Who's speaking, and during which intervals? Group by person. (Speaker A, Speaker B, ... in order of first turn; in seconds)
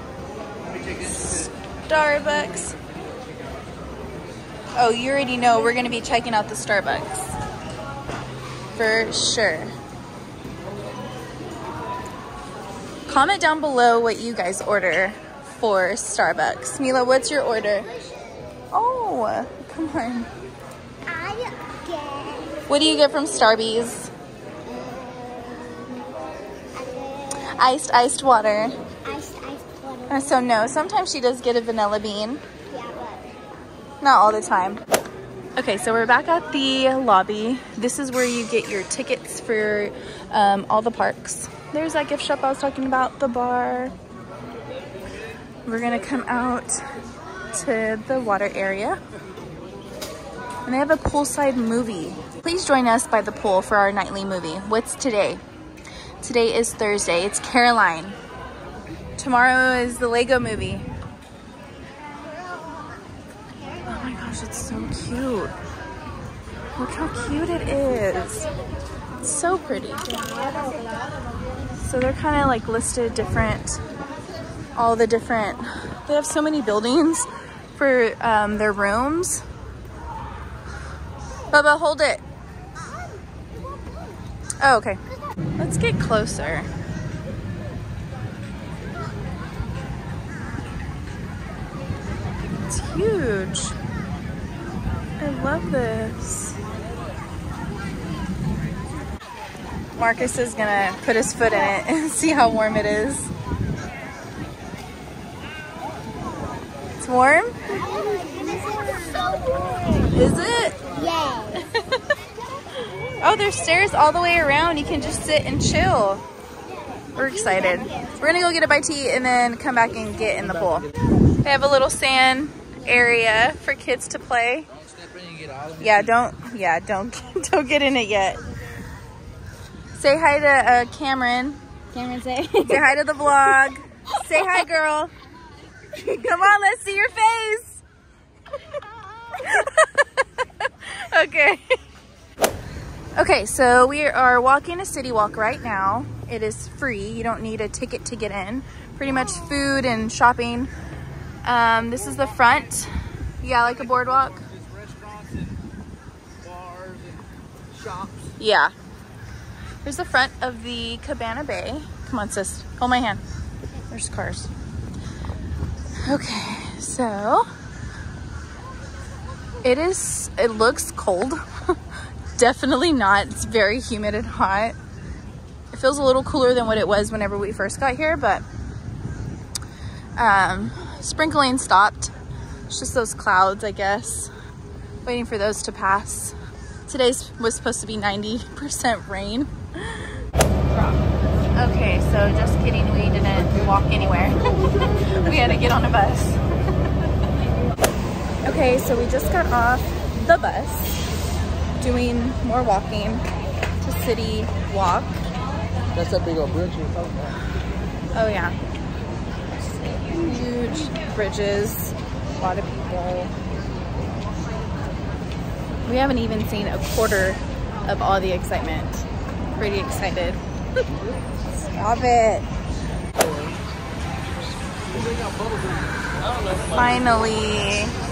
Speaker A: 0.6-3.6, 124.7-126.1, 151.9-152.7, 153.5-155.6, 156.4-158.3, 205.9-207.4
Speaker B: 1.0-2.8, 4.8-7.4, 8.7-9.7, 13.1-17.9, 18.7-20.3, 22.7-24.1, 27.4-28.8, 30.1-32.4, 34.0-34.8, 35.5-43.9, 45.6-46.8, 47.5-49.0, 50.6-55.4, 56.2-58.2, 59.2-60.9, 63.9-65.5, 66.8-68.5, 69.2-70.5, 71.8-73.8, 74.7-79.4, 81.5-82.2, 84.6-85.0, 85.6-86.7, 92.7-93.8, 95.2-96.6, 100.0-103.3, 107.0-107.6, 110.1-110.8, 113.2-116.2, 117.2-120.9, 121.4-124.7, 125.8-128.4, 129.9-131.6, 132.6-135.1, 135.9-137.8, 139.4-141.6, 143.2-150.7, 151.4-154.5, 158.4-158.7, 159.8-163.2, 163.9-164.5, 166.1-167.5, 169.6-171.8, 172.4-174.8, 175.7-178.4, 180.2-182.1, 182.7-184.3, 185.0-186.3, 186.9-190.1, 190.7-191.0, 191.5-196.4, 198.4-201.0, 201.8-203.2, 203.8-205.2, 208.1-208.6, 210.1-213.3, 215.8-219.1, 219.6-220.4, 221.5-222.5, 226.7-227.9
Speaker C: 17.7-18.5, 21.1-22.6, 24.6-25.9, 26.7-27.5, 29.0-30.5, 32.7-33.3, 107.7-110.1, 110.9-111.7, 116.7-118.2, 131.9-132.8